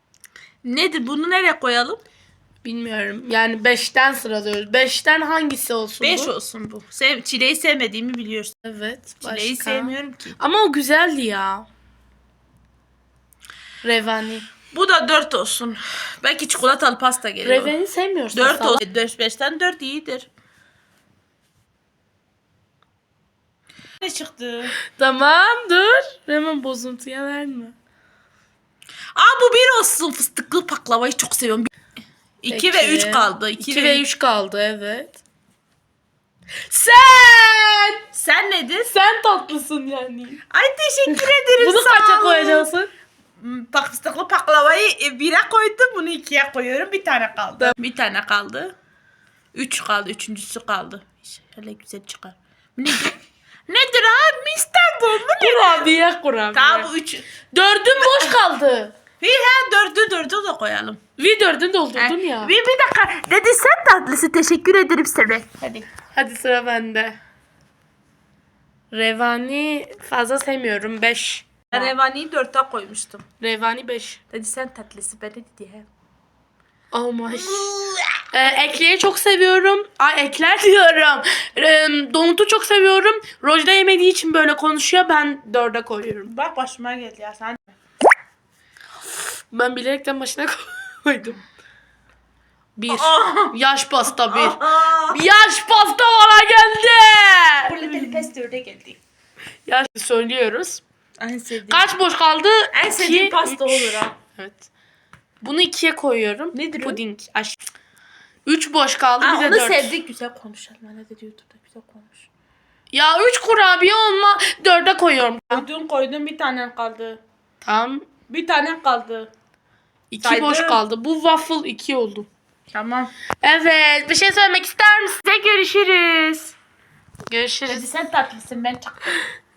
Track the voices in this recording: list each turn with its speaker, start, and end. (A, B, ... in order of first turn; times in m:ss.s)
0:00.6-0:02.0 A
0:02.6-0:06.3 B
0:06.0-0:08.5 A
0:08.6-0:11.7 B
0:09.2-0:10.4 A
0:13.8-0:14.5 B
0:14.7-0:17.7 A
0:17.4-0:18.8 B
0:18.3-0:20.3 A
0:24.0-0:24.7 A
0:24.9-0:27.7 B
0:29.1-0:31.7 A
0:32.4-0:34.0 A
0:32.5-0:35.2 B
0:36.7-0:38.0 B
0:38.1-0:38.9 A
0:38.9-0:40.4 B
0:40.5-0:42.7 A
0:41.1-0:42.9 B
0:43.4-0:48.7 A
0:49.5-0:55.9 A
0:55.4-0:56.9 B
0:56.5-0:57.3 A
0:57.5-0:58.9 B
0:58.0-0:58.3 A
0:59.2-1:01.0 A
1:01.2-1:02.5 B
1:01.9-1:05.9 A
1:06.0-1:07.2 B
1:08.9-1:11.9 B
1:11.7-1:13.2 A
1:13.4-1:14.2 B
1:14.3-1:15.9 A
1:16.9-1:17.7 B
1:17.3-1:18.2 A
1:18.3-1:26.3 B
1:26.2-1:27.7 A
1:29.5-1:31.4 B
1:32.8-1:38.2 B
1:32.9-1:33.6 A
1:34.1-1:35.2 A
1:37.6-1:39.0 A
1:39.6-1:40.8 B
1:41.2-1:41.8 A
1:41.7-1:44.7 B
1:42.7-1:44.1 A
1:45.4-1:47.6 B
1:46.5-1:47.0 A
1:48.4-1:49.9 B
1:49.2-1:52.3 A
1:52.9-1:55.6 B
1:55.5-1:57.2 A
1:57.6-1:58.0 B
1:58.3-1:59.3 A
2:00.1-2:02.3 B
2:00.2-2:00.8 A
2:02.7-2:03.1 A
2:03.4-2:05.6 B
2:05.4-2:06.5 A
2:07.3-2:07.8 B
2:07.7-2:09.2 A